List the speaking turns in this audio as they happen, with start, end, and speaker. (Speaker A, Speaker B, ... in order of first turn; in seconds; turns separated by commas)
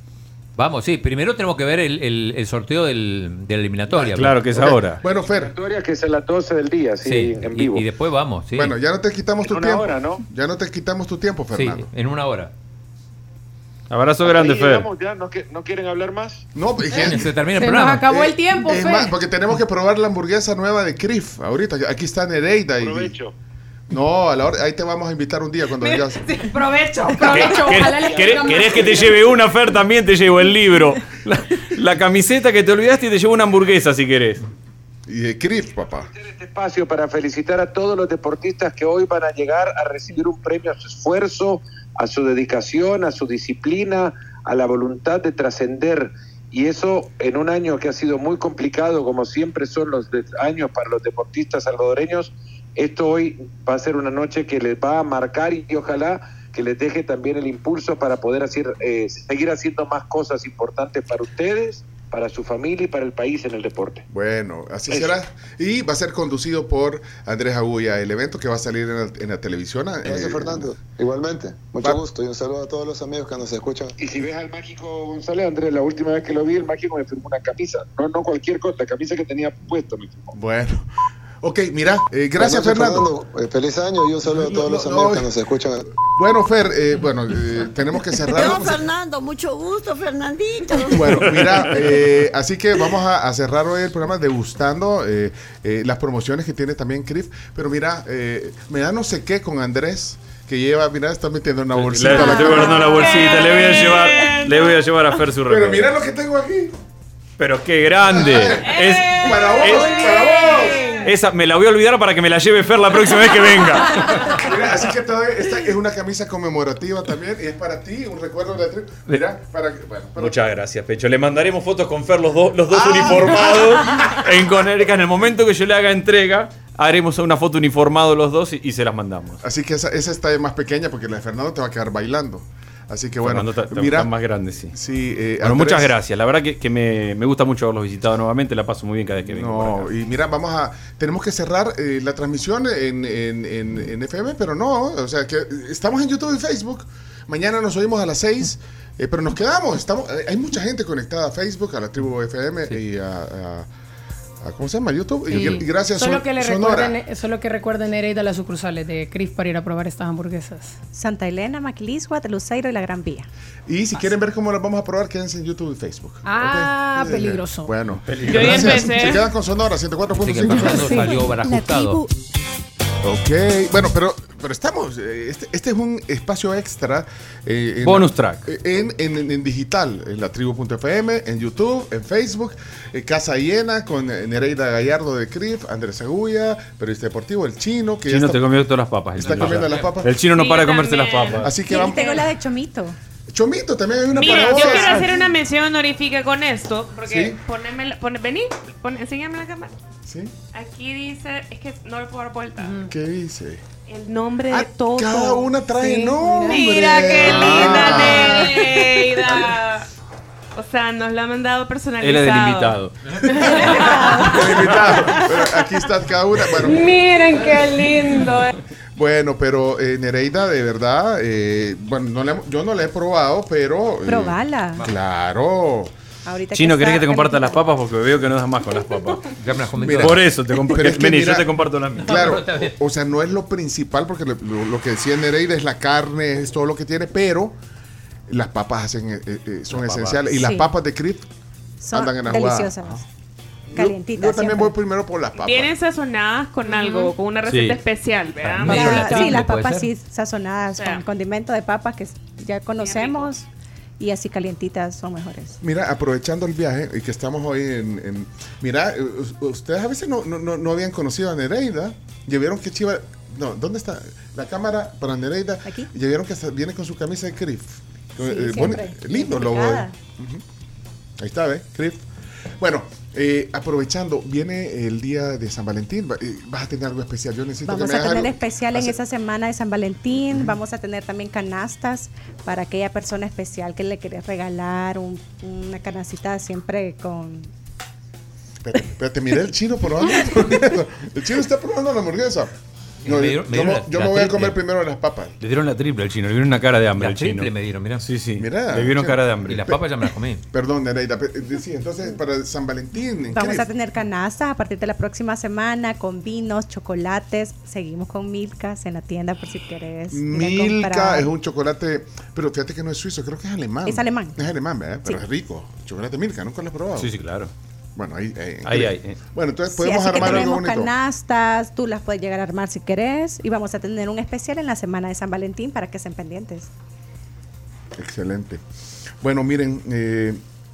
Speaker A: 0.6-4.4, Speaker B: 4.0-5.0, Speaker C: 4.5-5.5, Speaker D: 5.2-7.8, Speaker A: 7.0-8.7, Speaker C: 8.5-11.9, Speaker D: 9.4-10.2, Speaker A: 11.5-12.5, Speaker B: 13.9-14.9, Speaker D: 14.2-16.4, Speaker C: 16.5-17.3, Speaker A: 16.9-18.1, Speaker E: 17.6-19.1, Speaker C: 18.1-23.1, Speaker D: 22.8-23.3, Speaker C: 23.9-26.2, Speaker F: 25.8-27.6, Speaker E: 27.0-29.1, Speaker B: 27.2-34.4, Speaker D: 27.9-29.1, Speaker C: 35.1-36.1, Speaker D: 35.8-64.0, Speaker C: 64.1-70.7, Speaker D: 64.9-65.1, Speaker G: 70.0-73.9, Speaker D: 74.0-80.3, Speaker C: 80.3-80.9, Speaker C: 81.4-83.1, Speaker G: 82.4-85.8, Speaker C: 84.3-85.3, Speaker C: 86.0-88.8, Speaker H: 88.3-91.4, Speaker C: 90.8-103.4, Speaker B: 101.7-105.9, Speaker F: 102.2-104.8, Speaker C: 105.5-106.7, Speaker B: 107.4-110.0, Speaker C: 108.0-110.9, Speaker F: 108.6-111.1, Speaker B: 111.0-114.4, Speaker C: 114.2-120.3, Speaker B: 120.2-129.4, Speaker C: 122.7-124.2, Speaker C: 129.4-134.1, Speaker B: 133.2-134.7, Speaker C: 134.7-135.9, Speaker B: 135.4-139.9, Speaker C: 139.2-153.7, Speaker C: 154.4-157.0, Speaker E: 155.3-160.8, Speaker I: 160.9-163.3, Speaker C: 163.7-171.1, Speaker E: 166.2-167.7, Speaker B: 168.1-168.9, Speaker F: 168.2-169.3, Speaker A: 170.2-172.0, Speaker E: 170.7-171.1, Speaker I: 171.4-172.1, Speaker C: 173.0-188.4, Speaker B: 177.8-178.4, Speaker B: 188.1-191.5, Speaker C: 189.1-190.1, Speaker F: 190.2-192.2, Speaker C: 191.4-192.2, Speaker I: 191.6-193.0, Speaker C: 193.3-195.3, Speaker F: 194.1-199.7, Speaker C: 197.0-197.4, Speaker C: 200.1-200.3, Speaker F: 200.5-202.8, Speaker E: 202.6-202.9, Speaker C: 202.9-203.6, Speaker F: 203.9-205.6, Speaker C: 204.5-209.3, Speaker E: 205.8-206.7, Speaker F: 206.4-209.8, Speaker B: 207.2-208.1, Speaker F: 210.5-212.8, Speaker B: 212.0-212.9, Speaker C: 213.4-213.7, Speaker F: 213.4-214.6, Speaker B: 213.6-213.9, Speaker C: 214.2-216.9, Speaker E: 216.7-218.5, Speaker F: 217.8-218.4, Speaker C: 218.9-225.9, Speaker I: 224.1-224.9, Speaker I: 226.2-227.6, Speaker B: 226.5-229.3, Speaker A: 229.4-230.2, Speaker C: 229.8-237.6, Speaker B: 230.0-232.4, Speaker A: 232.1-232.7, Speaker C: 238.3-241.3, Speaker A: 239.8-240.2, Speaker I: 240.3-240.7, Speaker I: 241.8-243.0, Speaker C: 241.9-243.0, Speaker C: 243.7-245.8, Speaker I: 243.7-244.7, Speaker F: 245.4-249.2, Speaker B: 247.5-247.8, Speaker A: 248.4-249.9, Speaker I: 248.6-253.4, Speaker F: 250.7-251.0, Speaker F: 252.8-253.3, Speaker I: 254.0-255.6, Speaker C: 255.6-270.4, Speaker I: 265.6-265.9, Speaker I: 268.2-269.9, Speaker C: 271.2-272.0, Speaker C: 272.6-278.9, Speaker I: 277.6-287.5, Speaker C: 288.6-292.5, Speaker A: 293.0-294.6, Speaker C: 293.0-295.4, Speaker B: 295.4-299.7, Speaker A: 297.0-298.1, Speaker C: 298.4-299.8, Speaker A: 299.5-300.4, Speaker C: 300.5-303.7, Speaker I: 303.3-311.3, Speaker C: 310.1-317.1, Speaker I: 313.8-314.4, Speaker B: 317.0-317.5, Speaker C: 317.9-320.9, Speaker B: 318.6-319.2, Speaker I: 319.7-326.7, Speaker C: 327.9-328.6, Speaker C: 329.2-330.4